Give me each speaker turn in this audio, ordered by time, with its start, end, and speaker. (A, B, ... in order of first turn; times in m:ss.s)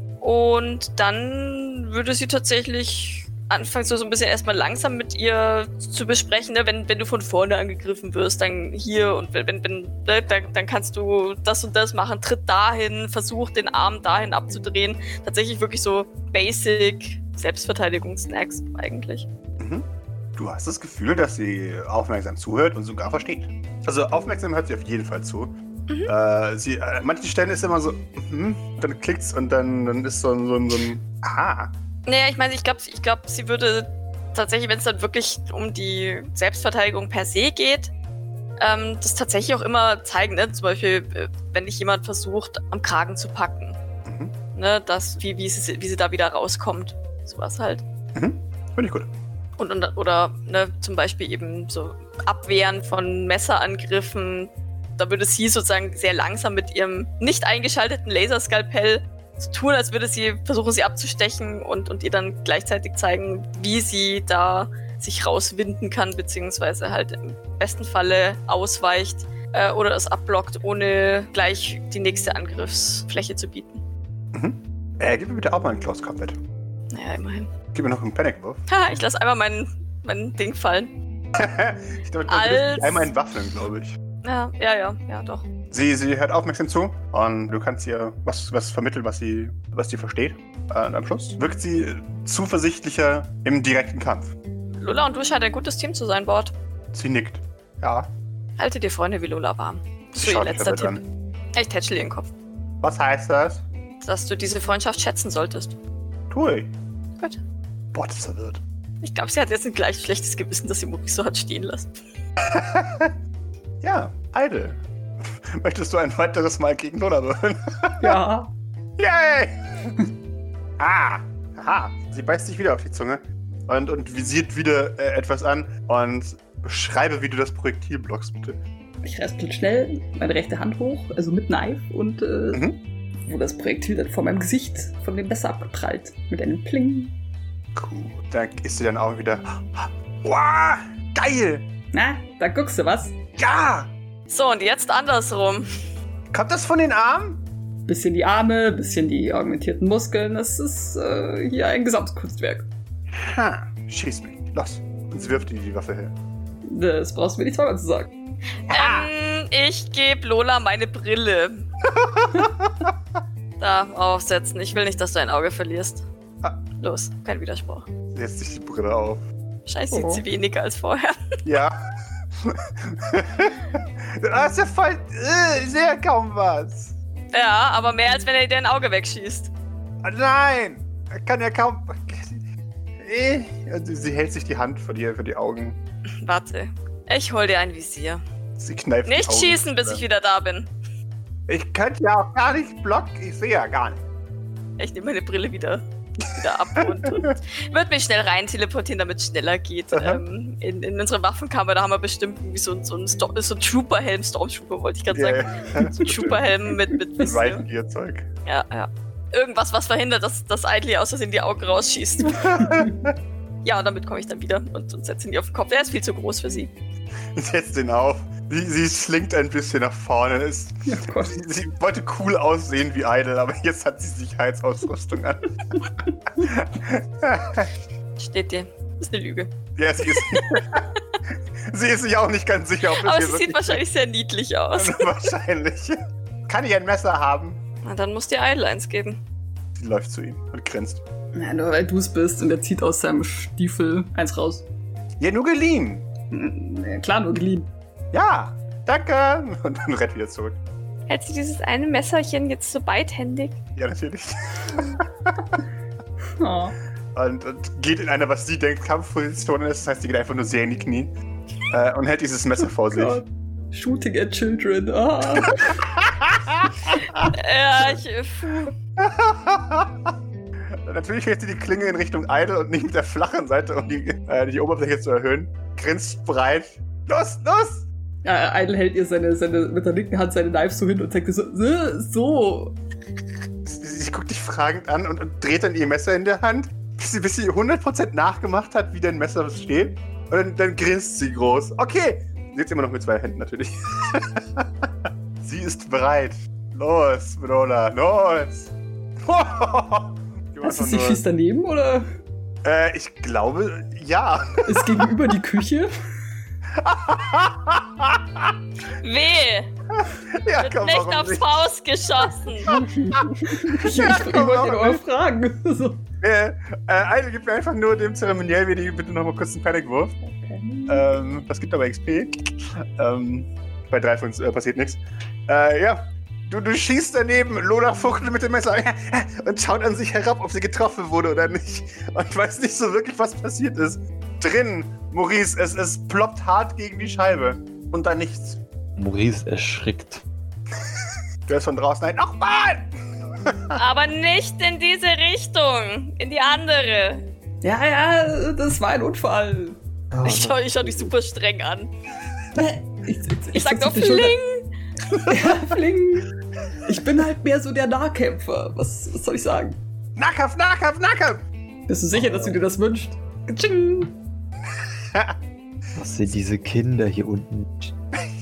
0:00.2-0:19.3 A
0:19.6-0:25.5 B
0:26.1-0:31.7 B
0:32.1-0:37.9 A
0:38.6-0:43.8 A
0:44.1-0:44.3 B
0:44.6-0:47.8 A
0:48.1-0:49.1 B
0:49.6-1:13.8 A
1:14.3-1:16.4 B
1:16.9-1:17.5 A
1:17.7-1:18.6 B
1:18.7-1:21.0 A
1:21.4-1:24.0 B
1:22.3-1:23.1 A
1:24.2-1:25.4 A
1:25.7-1:34.4 B
1:34.8-1:36.6 A
1:36.9-1:38.1 B
1:38.6-1:41.0 A
1:40.2-1:41.0 B
1:41.5-1:42.3 A
1:42.8-1:43.6 B
1:44.0-1:45.8 A
1:46.3-1:46.7 B
1:47.9-1:48.6 B
1:49.0-1:51.9 A
1:52.5-1:53.1 B
1:53.8-1:58.2 B
1:58.0-1:58.5 C
1:59.0-1:59.6 B
2:00.8-2:08.6 B
2:09.0-2:12.6 C
2:12.5-2:12.8 B
2:13.2-2:17.1 C
2:17.8-2:21.7 B
2:21.9-2:23.1 C
2:23.4-2:23.9 B
2:24.3-2:25.7 A
2:26.3-2:27.4 B
2:27.9-2:32.7 C
2:33.1-2:36.1 B
2:36.7-2:38.1 C
2:38.7-2:41.7 A
2:38.7-2:39.1 B
2:42.0-2:42.9 B
2:43.6-2:46.1 A
2:46.8-2:47.9 A
2:48.1-2:49.2 B
2:49.7-2:51.4 A
2:49.9-2:50.2 C
2:51.4-2:51.8 B
2:52.4-2:56.9 B
2:57.3-2:59.5 A
3:00.0-3:02.4 B
3:03.0-3:05.8 B
3:06.2-3:08.2 A
3:08.6-3:10.0 B
3:09.1-3:10.7 A
3:11.5-3:14.0 B
3:14.8-3:27.6 A
3:19.9-3:20.2 B
3:25.1-3:26.5 B
3:27.2-3:28.2 B
3:28.4-3:32.5 A
3:32.3-3:33.1 B
3:32.6-3:32.9 C
3:33.6-3:36.7 A
3:37.4-3:47.7 B
3:40.9-3:41.4 C
3:48.2-3:49.5 A
3:49.8-3:50.9 B
3:50.0-3:50.6 A
3:51.7-3:53.8 B
3:52.9-3:55.2 A
3:54.8-3:57.6 B
3:57.8-3:59.2 A
3:59.8-4:01.0 B
4:01.3-4:04.7 C
4:05.2-4:06.1 B
4:06.3-4:07.7 C
4:08.1-4:10.6 B
4:11.1-4:13.6 A
4:13.8-4:15.6 B
4:16.4-4:16.8 C
4:17.1-4:21.1 B
4:21.7-4:23.2 B
4:22.9-4:25.8 C
4:25.4-4:27.3 B
4:27.3-4:28.7 A
4:29.0-4:30.0 B
4:30.8-4:37.8 B
4:38.2-4:42.8 C
4:43.7-4:54.8 B
4:55.4-4:58.7 B
4:59.2-5:01.2 B
5:00.6-5:02.1 C
5:02.6-5:05.1 B
5:04.6-5:05.9 C
5:06.8-5:08.5 B
5:08.9-5:09.7 A
5:09.9-5:11.7 B
5:10.6-5:12.8 A
5:12.7-5:15.0 B
5:12.7-5:16.0 C
5:16.2-5:20.2 B
5:20.2-5:21.1 C
5:20.9-5:38.6 B
5:39.0-5:40.2 D
5:41.5-5:42.9 B
5:43.4-5:43.8 B
5:43.8-5:47.3 A
5:47.6-5:49.8 C
5:50.1-5:51.1 D
5:50.2-5:51.9 A
5:52.5-5:54.4 C
5:53.5-5:54.7 A
5:55.2-5:56.3 C
5:56.8-5:59.8 C
6:00.2-6:01.4 B
6:01.9-6:04.1 C
6:02.2-6:02.6 D
6:05.0-6:05.3 B
6:05.9-6:07.9 D